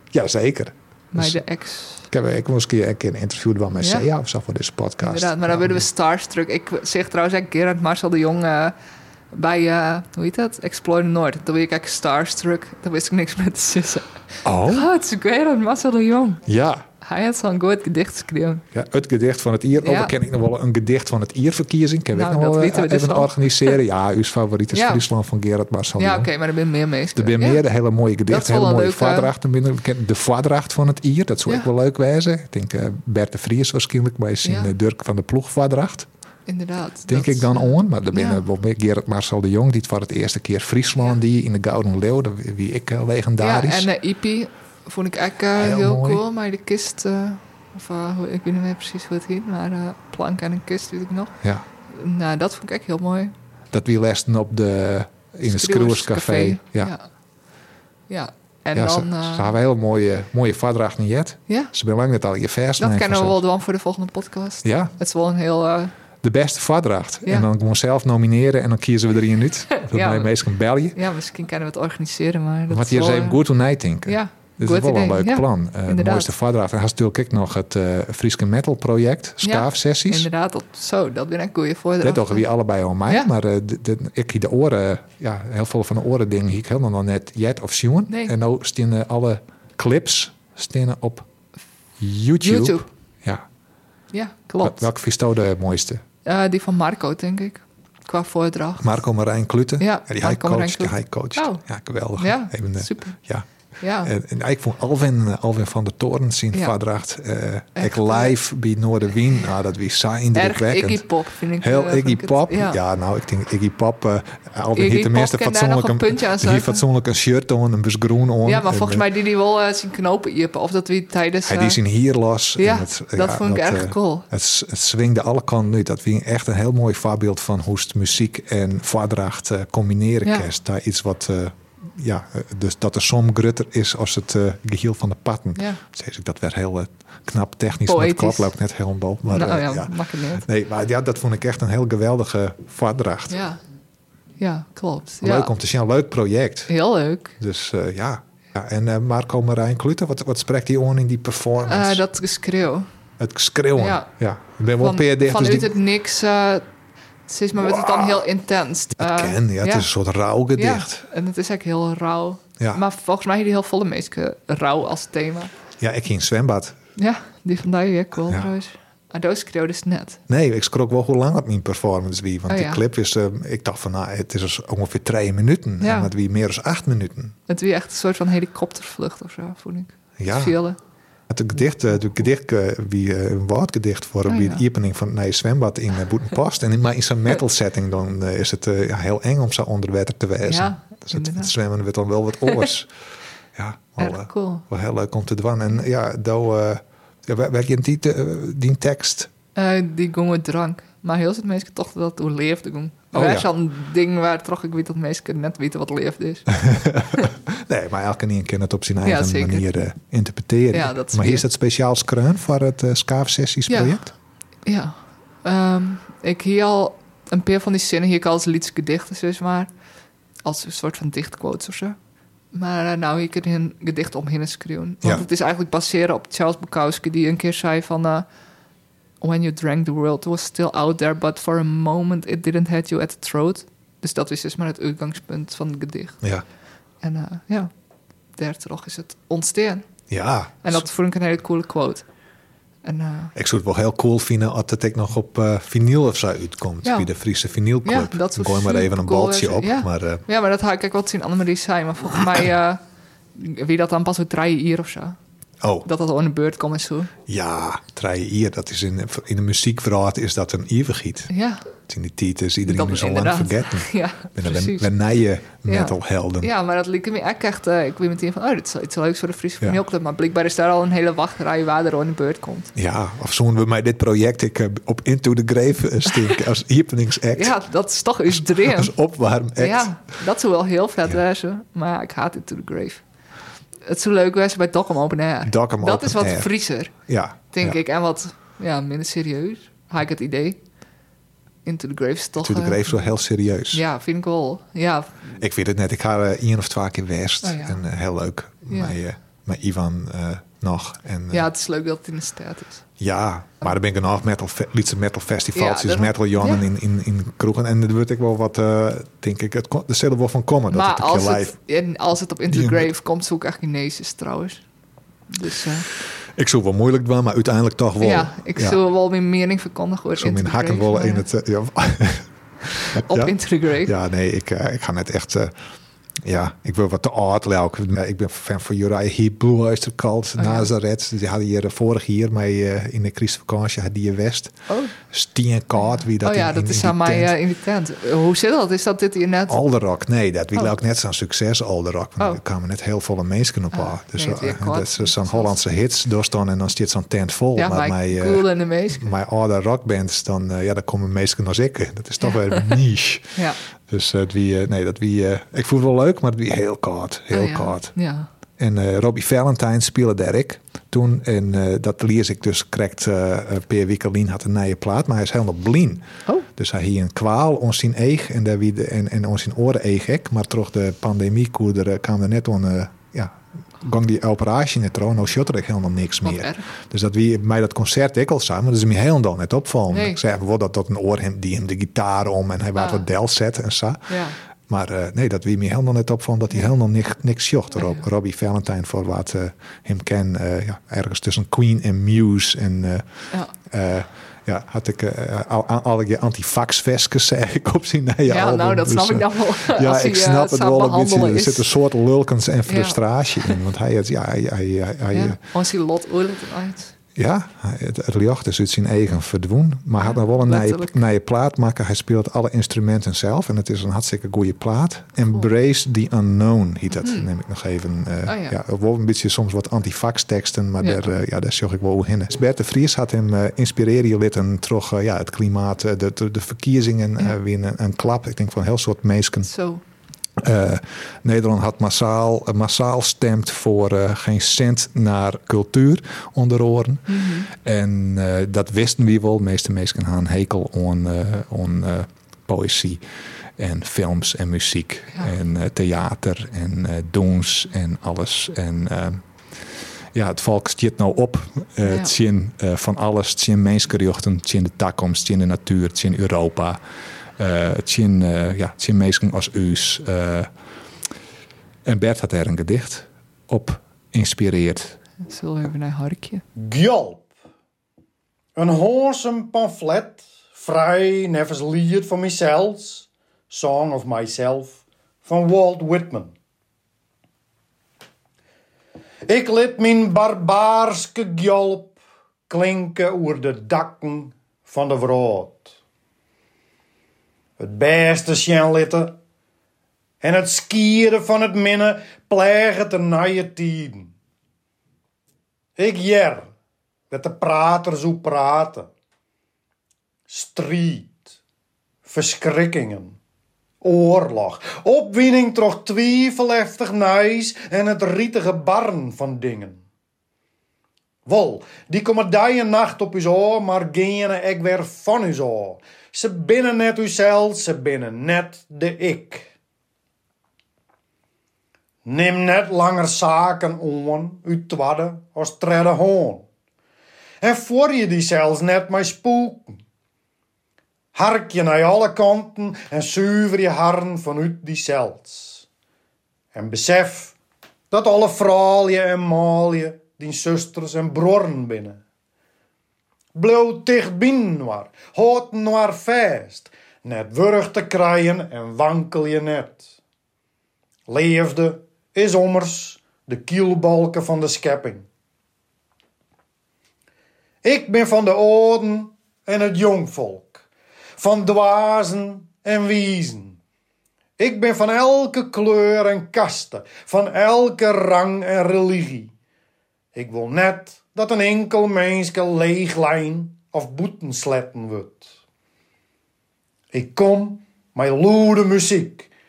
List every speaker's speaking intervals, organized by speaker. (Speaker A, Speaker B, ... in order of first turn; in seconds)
Speaker A: 0.1-1.4, 2.1-5.8, 14.4-14.9, 16.4-16.9, 18.7-26.3, 27.1-36.1, 37.1-43.9, 45.5-46.2, 53.7-56.9, 58.7-63.4, 64.6-64.9, 66.2-71.0, 72.7-80.3, 82.0-91.3, 92.0-93.4, 94.6-96.0, 98.8-103.5, 104.0-111.0, 111.6-119.0, 121.5-143.4, 145.2-146.7, 147.4-152.0, 153.2-155.7, 157.6-158.2, 158.9-161.0, 165.8-166.8, 170.3-177.3, 180.2-180.6, 181.3-192.9, 193.5-199.3, 203.1-203.5, 206.5-214.1, 240.1-240.8, 243.3-250.2, 255.6-255.8, 257.3-261.3, 261.9-266.5, 272.8-277.5, 278.3-279.9, 285.4-286.5, 287.1-287.8, 292.4-293.8, 295.4-301.4, 303.0-311.5, 312.5-312.9, 316.4-318.8, 320.2-322.3, 322.9-325.5, 326.2-337.3, 339.5-353.4, 353.9-357.9, 358.6-384.1, 384.7-393.1, 393.6-405.4, 407.1-429.5, 430.4-443.0, 443.6-449.2, 450.1-456.8, 457.4-460.5, 461.9-465.0
Speaker B: 1.1-2.0, 3.8-4.1, 5.0-8.7, 9.3-16.4, 17.0-18.6, 19.8-20.1, 22.1-23.8, 24.7-25.0, 26.0-27.6, 28.3-29.3, 34.4-34.7, 36.5-38.4, 43.4-51.3, 51.9-53.3, 55.4-57.0, 58.1-59.5, 62.8-65.9, 69.7-70.3, 70.9-73.4, 74.0-76.3, 79.4-82.4, 88.1-88.3, 92.4-92.9, 94.1-94.9, 96.2-99.0, 99.8-101.6, 102.2-103.2, 103.8-104.1, 107.8-108.3, 110.3-112.8, 114.7-116.8, 118.4-121.8, 122.6-124.2, 135.6-135.8, 137.8-138.5, 139.3-140.4, 143.3-143.6, 144.4-145.5, 146.7-147.3, 151.6-152.9, 153.8-154.1, 154.8-156.6, 157.3-159.9, 160.6-165.5, 167.0-170.2, 172.5-172.8, 175.8-176.1, 177.5-180.8, 184.3-184.6, 190.4-191.5, 194.0-194.6, 199.5-206.5, 209.0-209.7, 210.7-211.4, 213.7-214.0, 214.7-219.7, 220.4-222.0, 222.5-228.2, 229.2-236.2, 237.0-237.7, 238.4-239.8, 240.6-242.0, 242.8-243.3, 246.8-247.1, 247.8-252.8, 253.3-255.2, 255.8-257.1, 261.3-261.6, 262.6-264.9, 265.7-272.7, 277.3-278.9, 279.6-283.0, 283.8-286.9, 287.5-290.6, 291.6-293.0, 293.7-295.3, 297.4-297.8, 298.7-298.9, 301.3-302.8, 305.5-306.6, 310.7-314.6, 315.3-315.9, 318.0-321.2, 322.7-323.9, 330.4-330.7, 334.7-334.9, 335.8-339.6, 343.7-345.6, 347.6-349.1, 352.2-352.7, 357.3-358.3, 376.2-376.6, 379.9-380.2, 382.8-383.0, 384.1-384.4, 387.7-388.0, 398.2-401.7, 402.6-403.6, 405.1-406.9, 410.0-410.9, 417.0-417.3, 418.3-418.6, 429.4-429.8, 437.1-437.5, 451.8-452.1, 465.2-466.4
Speaker C: 466.6-467.3, 468.6-476.3, 479.2-482.0, 482.5-485.7, 487.6-489.2, 490.2-494.1, 495.8-496.5, 497.1-498.9, 500.3-501.3, 502.1-503.2, 503.8-509.8, 511.2-519.5, 522.0-526.5, 527.4-529.8, 531.1-535.6, 536.5-537.3, 537.9-542.0, 543.3-549.9, 551.1-555.0, 557.6-560.6, 561.2-563.6, 564.4-569.3, 570.1-575.3, 576.9-579.3